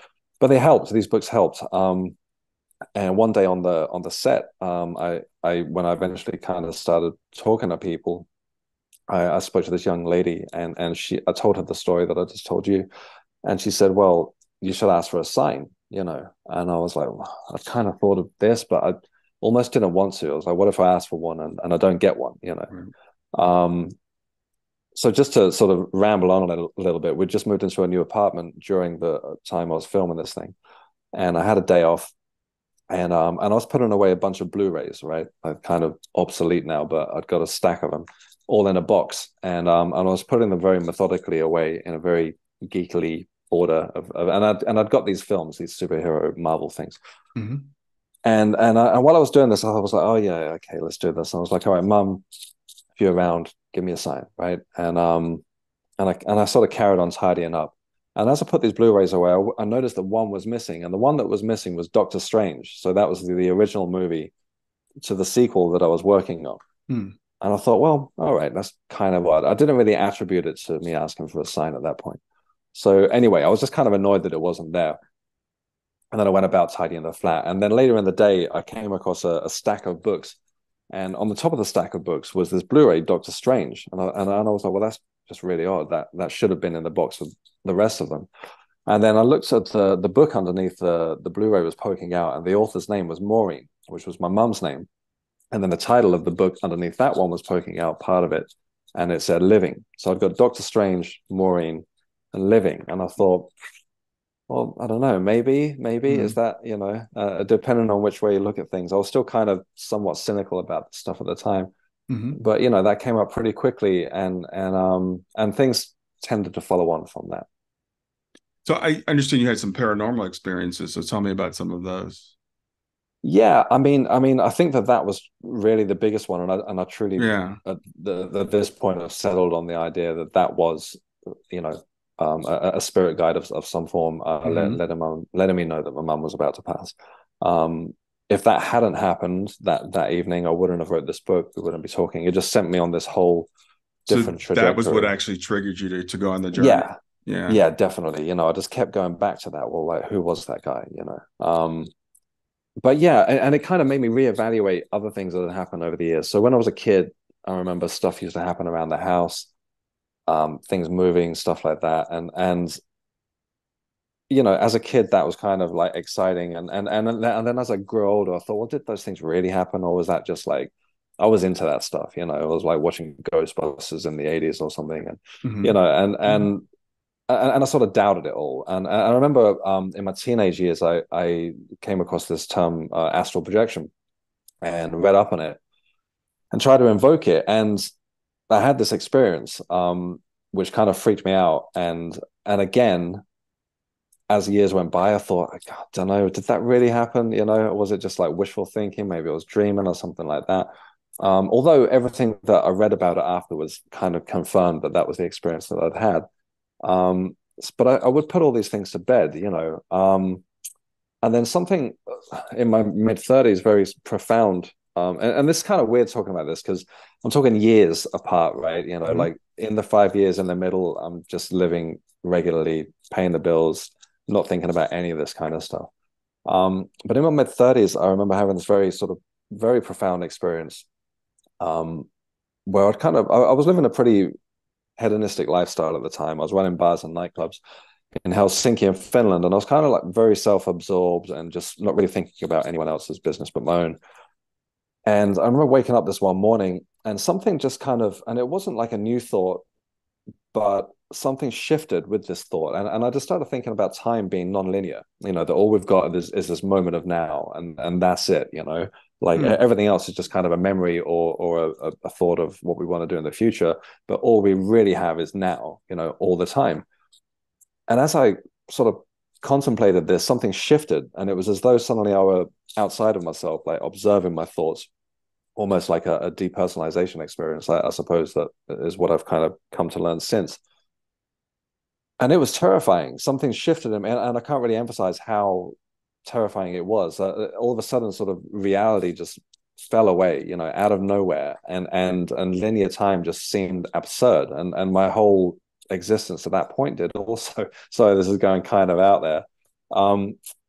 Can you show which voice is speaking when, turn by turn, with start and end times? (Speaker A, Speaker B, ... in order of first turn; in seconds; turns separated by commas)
Speaker A: 0.4-2.1, Speaker A: 2.9-8.3, Speaker A: 9.1-12.9, Speaker A: 13.4-22.7, Speaker A: 23.3-23.9, Speaker A: 24.9-30.5, Speaker A: 31.1-32.1, Speaker A: 32.9-47.0, Speaker B: 47.4-47.7, Speaker A: 48.2-52.2, Speaker A: 53.0-55.4, Speaker A: 56.0-64.3, Speaker A: 65.0-66.6, Speaker B: 66.9-67.2, Speaker A: 67.4-72.2, Speaker A: 72.7-75.0, Speaker A: 76.1-80.4, Speaker A: 80.9-88.3, Speaker A: 88.9-94.9, Speaker A: 95.5-103.5, Speaker A: 104.5-111.7, Speaker B: 106.1-106.4, Speaker B: 112.1-112.4, Speaker A: 112.3-117.5, Speaker B: 118.6-122.3, Speaker A: 123.2-143.5, Speaker B: 127.2-127.6, Speaker B: 134.4-134.8, Speaker A: 144.1-145.1, Speaker B: 144.1-147.6, Speaker A: 146.5-146.9, Speaker A: 147.5-151.9, Speaker A: 152.8-159.5, Speaker A: 160.3-162.8, Speaker A: 164.3-176.6, Speaker B: 175.4-175.7, Speaker A: 177.3-183.9, Speaker A: 184.6-185.6, Speaker A: 186.5-187.8, Speaker A: 188.5-193.2, Speaker A: 194.3-200.7, Speaker A: 201.2-206.2, Speaker A: 206.8-210.4, Speaker A: 211.2-225.9, Speaker A: 226.4-230.8, Speaker A: 231.6-232.1, Speaker A: 232.7-234.3, Speaker A: 235.0-237.6, Speaker A: 238.2-244.0, Speaker A: 245.1-249.6, Speaker A: 250.5-266.8, Speaker A: 267.9-274.9, Speaker A: 275.6-280.6, Speaker A: 282.2-300.4